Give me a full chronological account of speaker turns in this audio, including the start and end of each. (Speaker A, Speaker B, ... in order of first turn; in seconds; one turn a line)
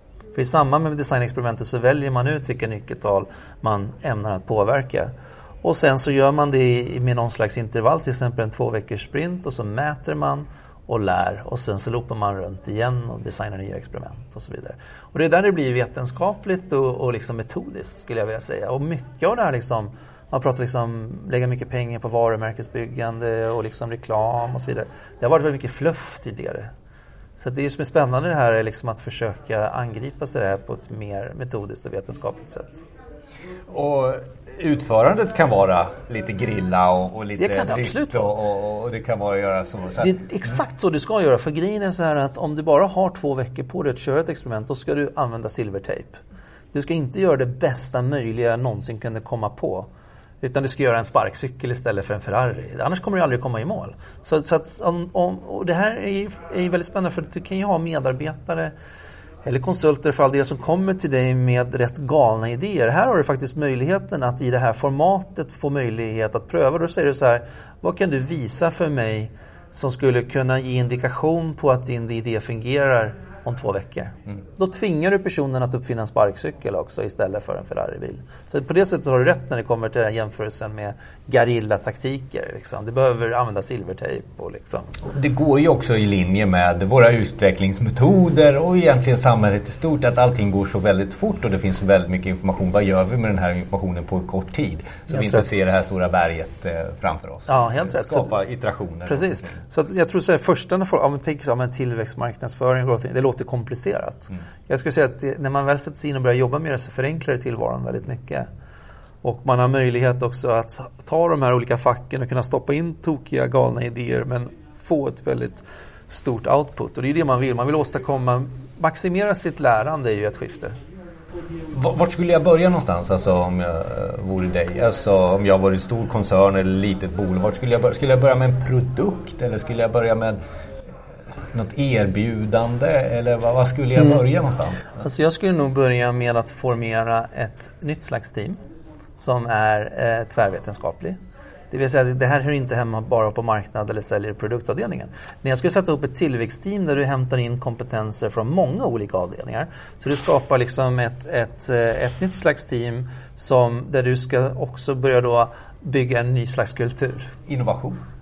Speaker A: 0.3-5.1
Speaker A: 5.6-26.7
Speaker A: 27.4-32.8
Speaker B: 33.7-40.1
Speaker A: 37.4-38.3
Speaker A: 40.0-46.2
Speaker A: 46.7-49.9
Speaker A: 50.4-58.7
Speaker A: 59.4-84.9
Speaker B: 85.0-99.6
Speaker A: 95.1-95.5
Speaker A: 97.5-98.3
Speaker A: 99.0-108.5
Speaker A: 109.2-120.7
Speaker B: 121.7-130.4
Speaker B: 131.5-135.0
Speaker A: 135.0-138.6
Speaker A: 139.2-141.2
Speaker A: 141.7-157.3
Speaker B: 157.5-158.0